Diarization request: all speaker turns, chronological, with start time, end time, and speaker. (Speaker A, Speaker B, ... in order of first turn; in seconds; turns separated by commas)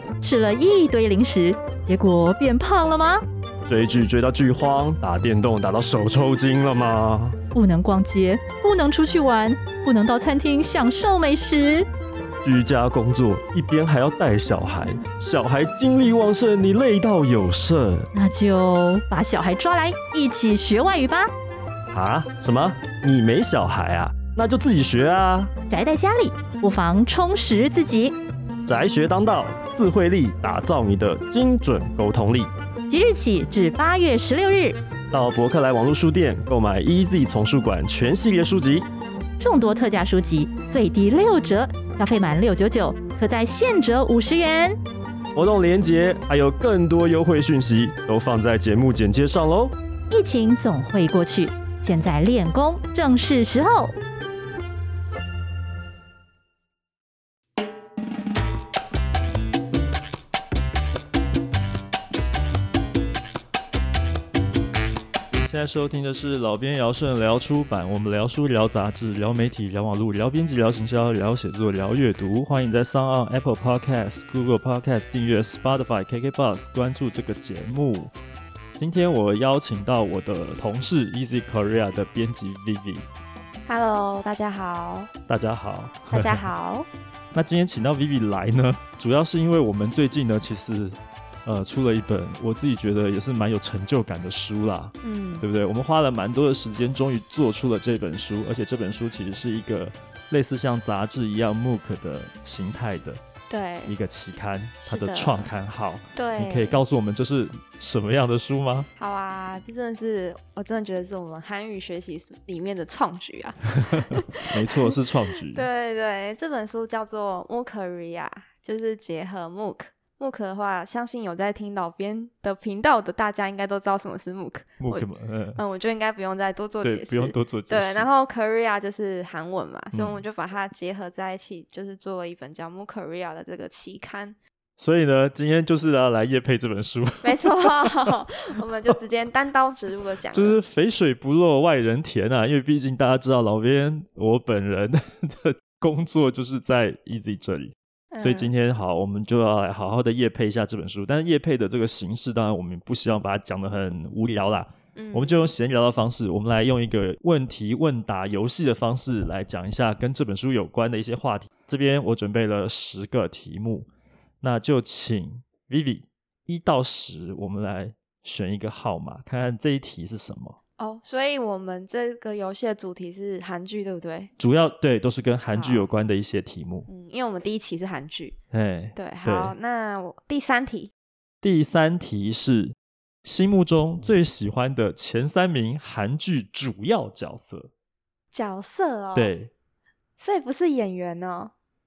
Speaker A: 0.2-3.2, Speaker B: 3.7-7.4, Speaker A: 7.5-11.9, Speaker B: 12.4-18.1, Speaker A: 18.1-21.3, Speaker B: 21.9-25.5, Speaker A: 25.7-28.2, Speaker B: 28.7-32.5, Speaker A: 32.9-34.8, Speaker B: 35.1-38.9, Speaker A: 39.4-44.8, Speaker B: 45.4-49.7, Speaker A: 50.1-53.9, Speaker B: 65.4-78.1, Speaker B: 78.8-83.1, Speaker C: 83.7-85.1, Speaker B: 85.3-86.5, Speaker C: 86.1-86.9, Speaker B: 87.3-103.2, Speaker C: 95.0-95.5, Speaker C: 103.5-103.9, Speaker B: 103.9-108.9, Speaker C: 104.9-105.5, Speaker C: 106.2-106.8, Speaker C: 109.0-134.4, Speaker B: 113.8-115.7, Speaker B: 124.8-125.6, Speaker B: 126.8-128.1, Speaker B: 129.9-130.2, Speaker B: 134.8-138.2, Speaker C: 137.2-140.6, Speaker B: 140.3-163.9, Speaker C: 148.1-148.5, Speaker C: 155.0-155.5, Speaker B: 164.4-170.6, Speaker C: 170.8-174.3, Speaker B: 174.4-176.9, Speaker C: 175.5-175.9, Speaker C: 176.9-178.4, Speaker B: 178.5-179.6, Speaker C: 178.9-180.9, Speaker B: 181.4-187.7, Speaker C: 188.3-189.3, Speaker B: 189.2-189.5, Speaker C: 190.2-191.5